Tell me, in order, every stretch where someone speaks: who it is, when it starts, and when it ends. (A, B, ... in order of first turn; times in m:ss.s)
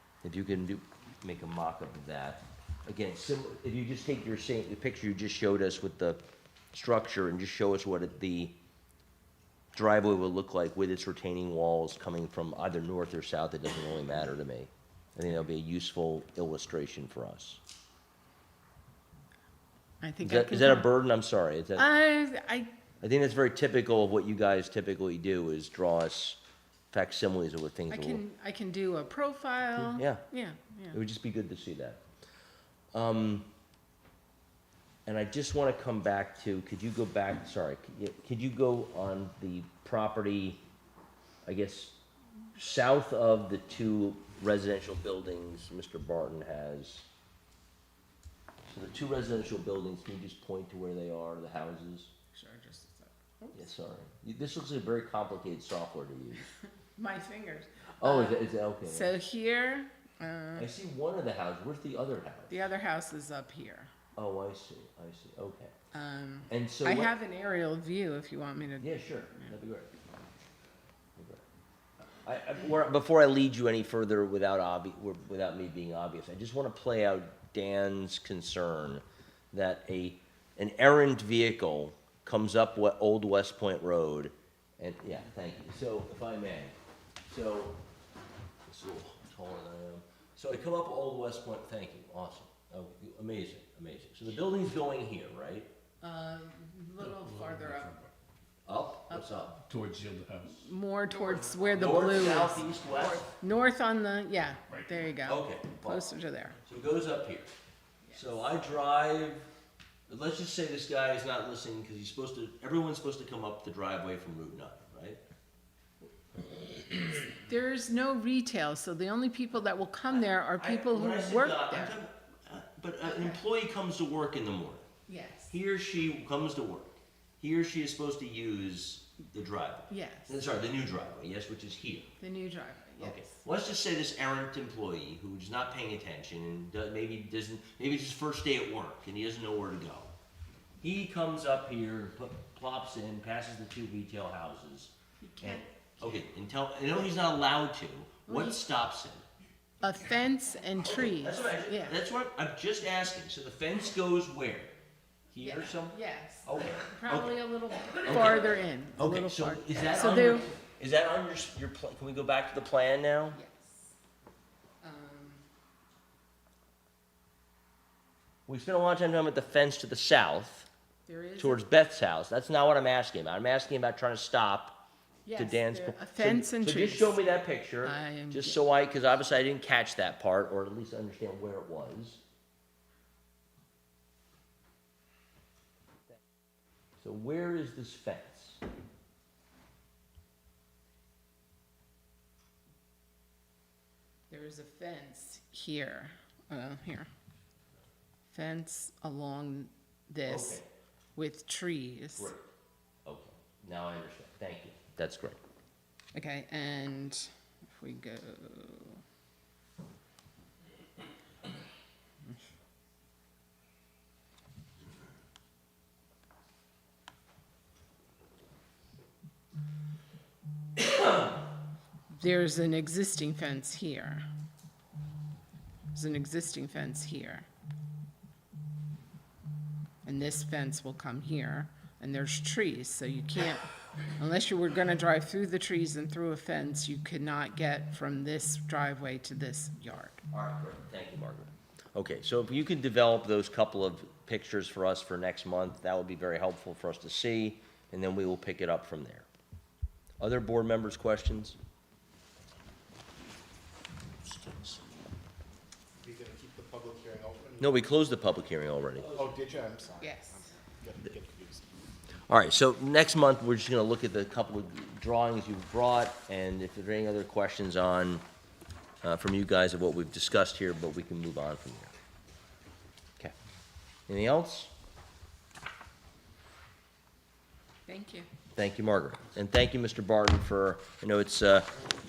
0:00.2-0:06.2 A
0:06.7-0:08.6 A
0:09.7-0:17.6 A
0:20.0-0:20.9 B
0:20.2-0:21.9 A
0:21.8-0:22.7 B
0:23.0-0:26.4 A
0:26.9-0:28.2 A
0:27.9-0:31.0 B
0:29.8-0:30.2 A
0:30.9-0:32.0 A
0:32.9-0:33.5 A
0:35.1-0:40.6 A
0:41.4-0:42.0 A
0:42.6-0:47.1 A
0:48.7-0:52.1 A
0:52.3-0:53.7 B
0:53.5-0:56.5 A
0:56.6-1:00.7 B
0:58.0-0:59.1 A
1:00.6-1:02.7 A
1:02.5-1:03.9 B
1:04.2-1:05.7 A
1:05.9-1:09.5 B
1:06.5-1:07.1 A
1:08.8-1:09.9 A
1:11.2-1:11.4 A
1:12.2-1:26.8 A
1:27.3-1:27.8 A
1:28.7-1:35.7 A
1:36.0-1:38.0 B
1:37.0-1:38.1 C
1:38.7-1:39.6 A
1:39.1-1:39.5 B
1:39.6-1:40.6 C
1:40.5-1:46.6 B
1:41.7-1:43.3 A
1:45.2-1:46.0 A
1:46.6-1:47.5 A
1:48.1-1:49.5 A
1:50.1-1:55.2 A
1:57.3-2:02.0 B
2:00.1-2:04.9 A
2:03.0-2:03.4 B
2:05.1-2:05.5 B
2:05.5-2:12.1 A
2:09.9-2:10.4 B
2:12.2-2:13.4 B
2:13.0-2:20.1 A
2:20.8-2:29.2 A
2:25.2-2:26.2 B
2:28.3-2:28.6 B
2:29.8-2:32.0 B
2:30.8-2:34.8 A
2:35.3-2:37.4 A
2:35.4-2:40.5 B
2:38.0-2:43.4 A
2:43.3-2:44.0 B
2:44.8-2:45.4 B
2:48.5-2:50.7 A
2:51.1-2:51.7 B
2:51.4-2:54.8 A
2:55.3-2:57.2 B
2:55.4-3:02.2 A
2:57.8-2:58.6 B
3:07.0-3:08.6 A
3:14.3-3:17.1 B
3:18.3-3:20.6 B
3:20.3-3:20.7 A
3:21.2-3:22.3 B
3:22.2-3:22.5 A
3:23.1-3:25.4 A
3:26.1-3:29.0 B
3:40.8-3:41.3 A
3:42.2-3:44.2 B
3:45.9-3:47.5 B
3:50.0-4:00.2 B
4:00.3-4:09.3 A
4:10.2-4:11.6 A
4:14.4-4:14.8 A
4:16.0-4:17.8 D
4:17.6-4:19.3 A
4:19.0-4:21.7 D
4:20.0-4:20.6 B
4:22.3-4:28.2 A
4:29.0-4:31.9 A
4:34.1-4:34.7 A
4:37.9-4:38.3 B
4:38.6-4:41.7 A